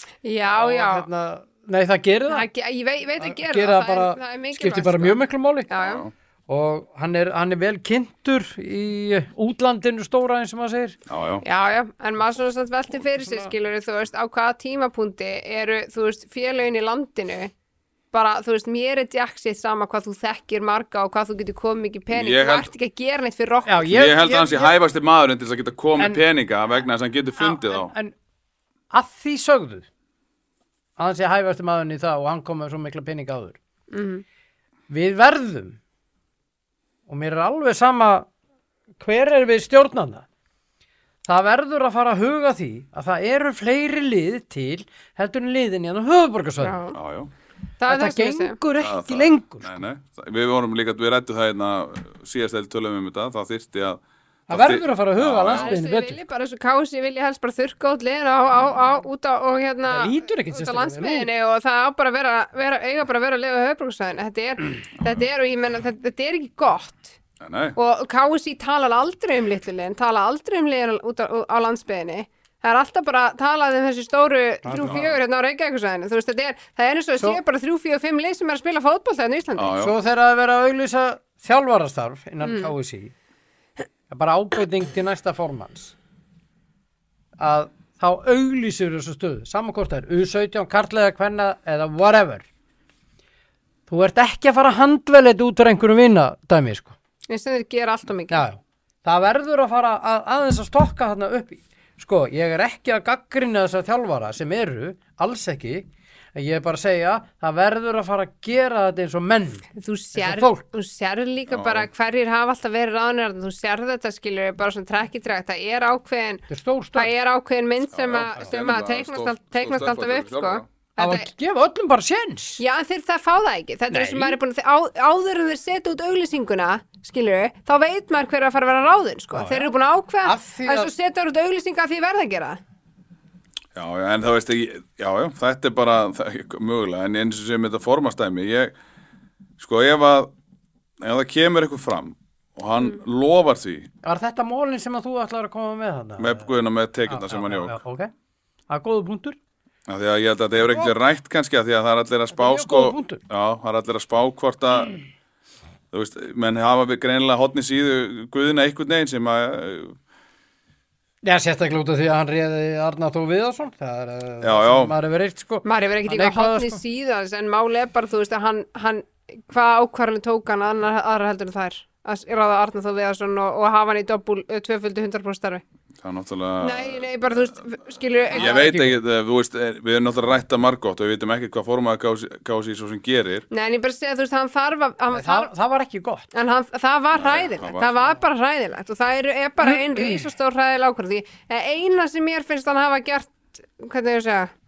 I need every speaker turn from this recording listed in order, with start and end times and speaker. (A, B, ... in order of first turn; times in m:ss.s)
0:00.2-0:01.1 A
0:00.5-0:02.5 B
0:02.3-0:06.0 A
0:03.2-0:05.7 B
0:05.8-0:06.1 C
0:06.5-0:11.0 B
0:11.1-0:11.4 C
0:11.4-0:17.5 A
0:13.0-0:13.5 B
0:18.1-0:23.9 A
0:22.1-0:22.7 C
0:23.7-0:24.7 B
0:23.9-0:27.9 C
0:26.0-0:26.2 B
0:27.4-0:28.2 B
0:28.9-0:29.9 B
0:31.0-0:33.6 B
0:33.9-0:34.2 A
0:34.9-0:35.8 B
0:37.1-0:38.3 B
0:39.0-0:40.3 B
0:41.2-0:46.8 B
0:46.6-0:47.0 A
0:46.9-0:47.3 C
0:47.8-0:48.6 A
0:47.9-0:49.8 B
0:48.8-0:55.7 C
0:54.5-0:56.2 B
0:55.5-1:07.2 A
0:59.9-1:01.3 B
1:07.4-1:07.8 C
1:07.8-1:19.7 A
1:14.6-1:15.0 B
1:14.8-1:15.1 C
1:19.6-1:19.9 C
1:19.8-1:23.1 B
1:22.4-1:22.7 A
1:24.1-1:26.0 B
1:27.4-1:32.5 B
1:33.9-1:37.0 B
1:37.3-1:38.4 A
1:38.3-1:50.6 B
1:49.8-2:01.3 A
1:51.5-1:51.9 C
1:56.5-1:57.1 B
1:57.9-2:00.6 C
2:01.0-2:02.6 B
2:02.6-2:12.6 A
2:03.9-2:04.4 B
2:09.3-2:09.7 B
2:10.2-2:10.9 B
2:13.8-2:18.8 C
2:19.6-2:20.3 C
2:21.0-2:23.9 C
2:24.0-2:26.5 B
2:26.2-2:27.8 C
2:27.1-2:28.1 B
2:28.7-2:29.4 B
2:29.9-2:35.0 C
2:30.6-2:30.9 B
2:32.3-2:33.2 B
2:35.9-2:40.0 C
2:41.2-2:46.8 B
2:44.4-2:44.9 C
2:45.6-2:55.6 A
2:56.0-2:57.1 C
2:56.6-2:58.7 A
2:58.3-3:03.5 C
2:58.3-2:59.0 B
3:03.5-3:05.5 A
3:05.1-3:06.3 B
3:06.3-3:14.5 A
3:07.2-3:07.9 C
3:09.6-3:10.3 B